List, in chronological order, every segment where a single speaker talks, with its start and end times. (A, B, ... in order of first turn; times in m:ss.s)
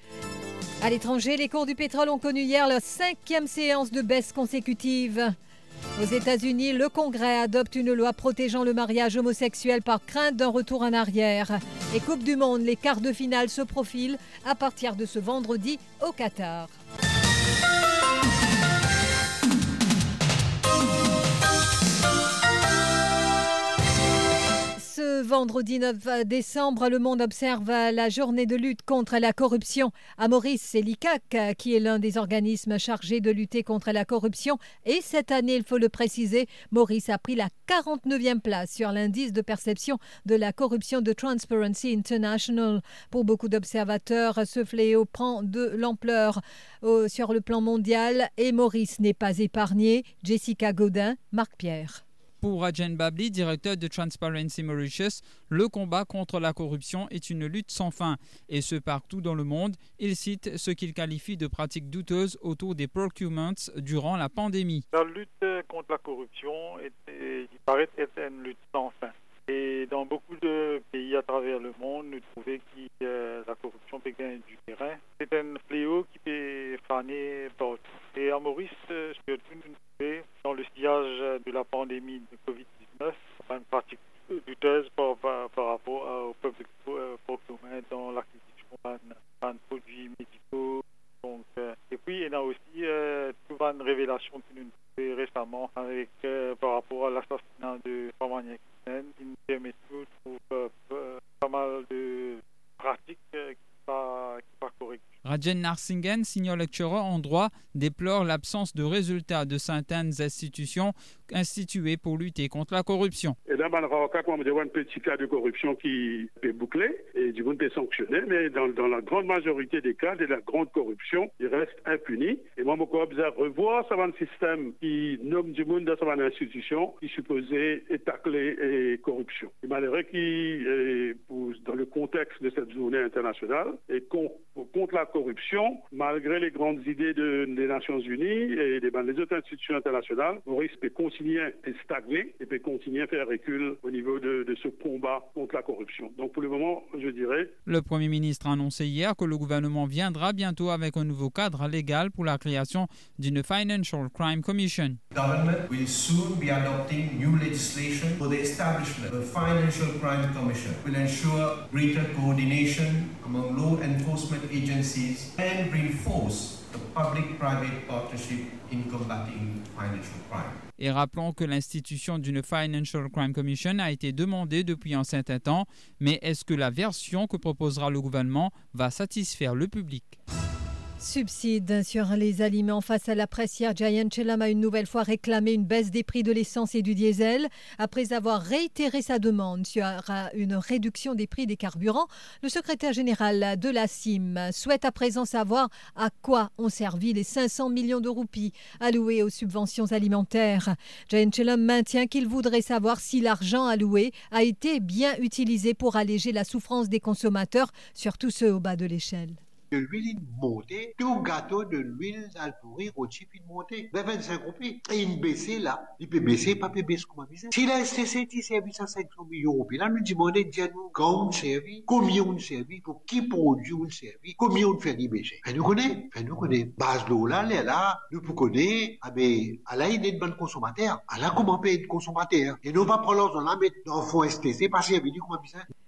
0:00.8-0:05.3 A
0:06.0-0:16.7 A
0:24.8-0:52.0 A
0:52.4-1:04.8 B
1:04.9-1:45.1 C
1:45.2-1:53.4 B
1:53.5-2:27.5 D
2:27.6-2:35.0 B
2:35.1-2:50.6 E
2:50.8-3:00.2 B
3:01.0-3:29.4 A
3:29.7-3:55.7 F